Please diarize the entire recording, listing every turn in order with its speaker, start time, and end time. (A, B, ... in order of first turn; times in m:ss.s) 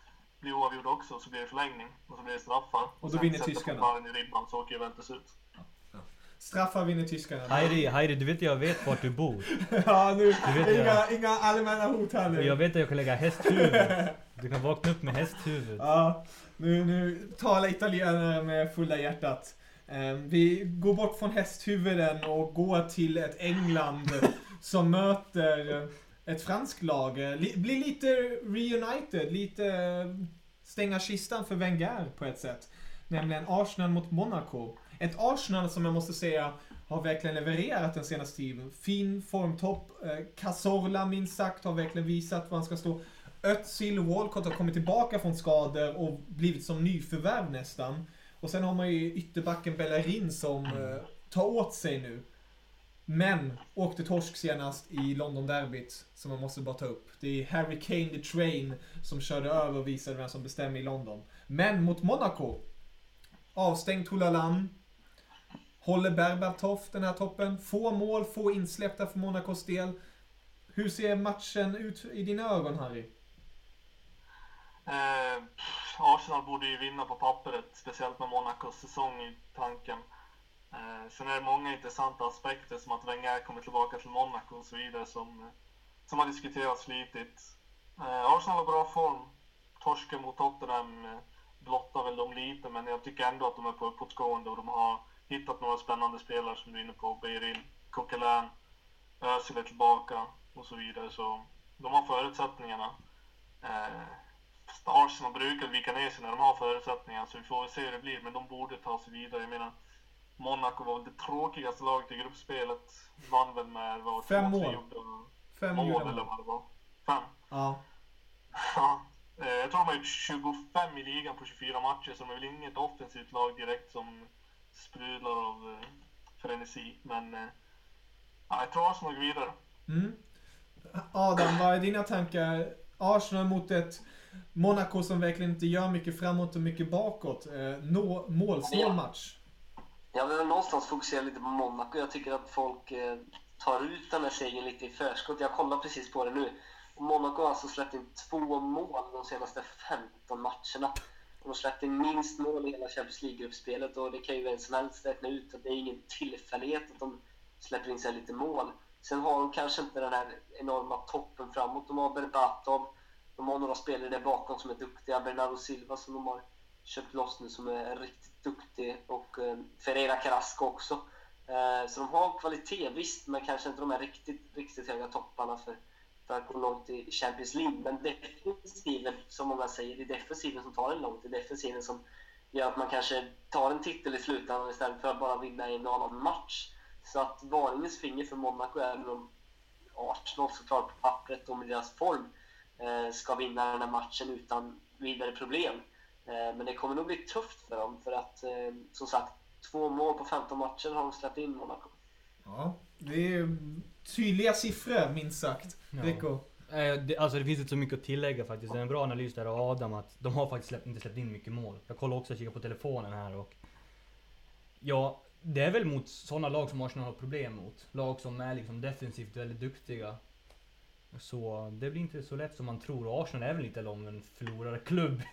0:00.4-0:05.3 A
0:03.0-0:03.9 B
0:05.8-0:07.8 B
0:07.5-0:09.6 C
0:09.6-0:12.6 B
0:10.4-0:11.0 C
0:12.3-0:15.9 C
0:13.4-0:14.1 B
0:15.8-0:52.3 B
0:50.7-0:51.0 C
0:53.1-1:02.6 B
1:03.6-1:04.8 B
1:05.8-1:10.0 B
1:10.7-1:13.1 B
1:14.9-1:20.1 A
1:20.7-1:25.5 A
1:26.1-1:38.5 A
1:39.2-1:43.0 A
1:43.6-1:44.2 A
1:44.8-1:49.8 A
1:50.4-1:57.3 A
1:54.2-1:54.8 B
1:55.5-1:56.3 B
1:57.5-1:57.8 B
1:58.6-2:07.5 A
2:08.5-2:09.6 A
2:09.9-2:10.2 B
2:10.9-2:14.0 B
2:14.6-2:19.4 B
2:18.6-2:19.0 D
2:20.1-3:09.3 D
3:09.9-3:21.9 D
3:22.4-3:26.4 B
3:25.9-3:33.6 C
3:34.8-3:40.2 C
3:41.1-3:45.2 C